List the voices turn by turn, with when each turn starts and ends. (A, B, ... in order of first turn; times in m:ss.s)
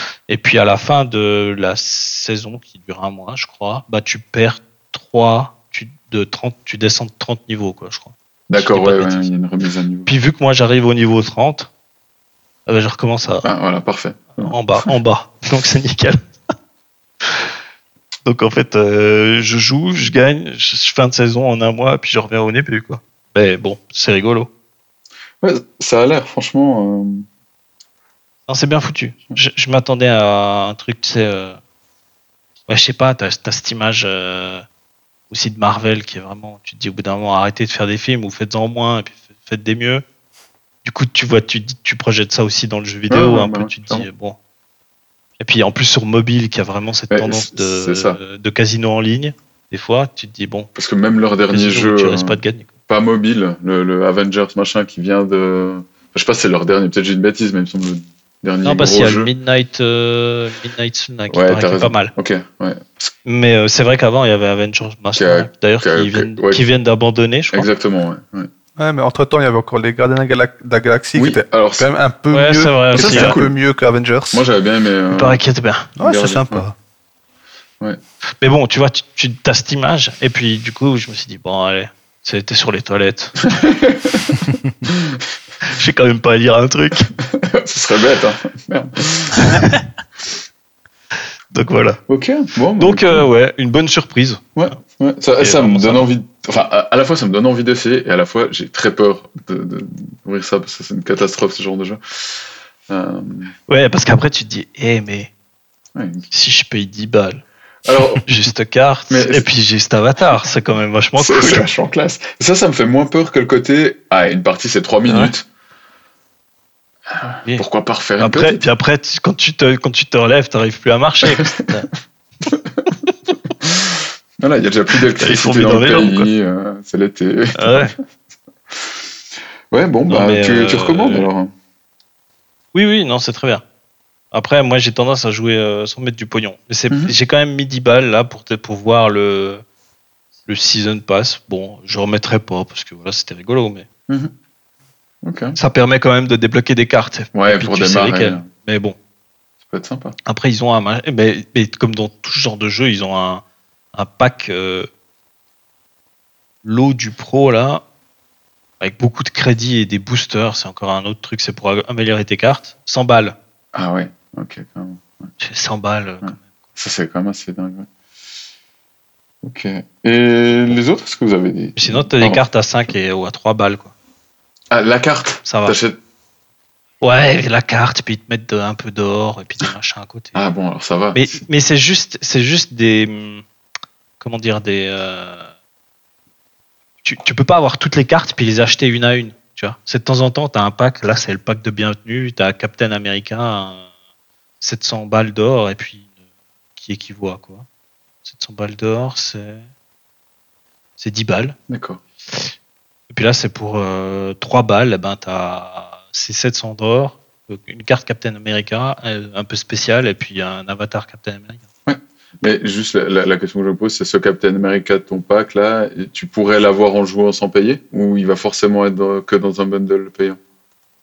0:00.3-0:09.3 A
0:08.5-0:10.1 B
0:10.0-0:11.7 A
0:12.7-0:13.5 A
0:13.4-0:14.5 B
0:14.4-0:16.2 A
0:18.2-0:24.5 A
0:25.4-0:27.2 B
0:28.5-0:31.6 A
0:32.7-0:34.6 A
0:35.3-0:40.0 A
0:40.8-0:44.4 A
0:43.1-0:44.0 B
0:45.4-0:50.7 A
0:47.1-0:48.2 B
0:50.7-0:59.3 B
0:51.5-0:52.7 A
0:58.6-1:02.1 A
1:01.3-1:03.1 B
1:03.2-1:07.7 A
1:05.2-1:06.6 B
1:07.5-1:08.5 B
1:08.8-1:14.4 C
1:11.1-1:11.9 B
1:12.3-1:13.4 A
1:12.9-1:13.5 B
1:14.3-1:15.4 B
1:15.1-1:15.9 A
1:16.0-1:16.7 C
1:16.0-1:16.6 B
1:18.4-1:23.4 A
1:23.5-1:24.3 B
1:25.7-1:27.1 A
1:27.3-1:29.5 B
1:31.5-1:32.0 A
1:32.1-1:33.3 B
1:32.8-1:34.8 A
1:34.6-1:43.5 B
1:35.4-1:36.1 A
1:43.7-1:45.3 A
1:45.9-1:46.3 B
1:46.3-1:47.4 A
1:47.8-1:48.3 B
1:48.2-1:51.7 A
1:49.1-1:49.4 B
1:51.2-1:55.4 B
1:55.1-1:55.3 A
1:57.1-1:58.6 B
1:58.2-2:01.9 A
2:03.6-2:07.9 B
2:05.1-2:06.3 A
2:07.6-2:07.9 A
2:09.7-2:11.5 B
2:10.1-2:11.3 A
2:12.7-2:13.6 A
2:14.3-2:19.6 A
2:20.5-2:23.8 A
2:25.2-2:25.6 B
2:25.6-2:29.0 A
2:27.3-2:28.5 B
2:29.7-2:30.2 B
2:30.2-2:34.9 A
2:36.6-2:37.8 A
2:38.8-2:43.4 A
2:43.7-2:45.3 B
2:45.4-2:46.4 A
2:46.2-2:47.9 B
2:49.4-2:52.4 B
2:51.8-2:53.9 A
2:54.7-2:56.0 B
2:55.4-2:55.8 A
2:57.0-3:00.4 A
3:00.3-3:01.4 B
3:01.1-3:03.4 A
3:04.2-3:05.5 A
3:07.0-3:13.8 A
3:14.6-3:16.0 A
3:16.8-3:17.7 A
3:18.2-3:19.6 A
3:21.0-3:21.6 A
3:21.7-3:22.0 B
3:23.1-3:31.6 A
3:31.8-3:40.4 B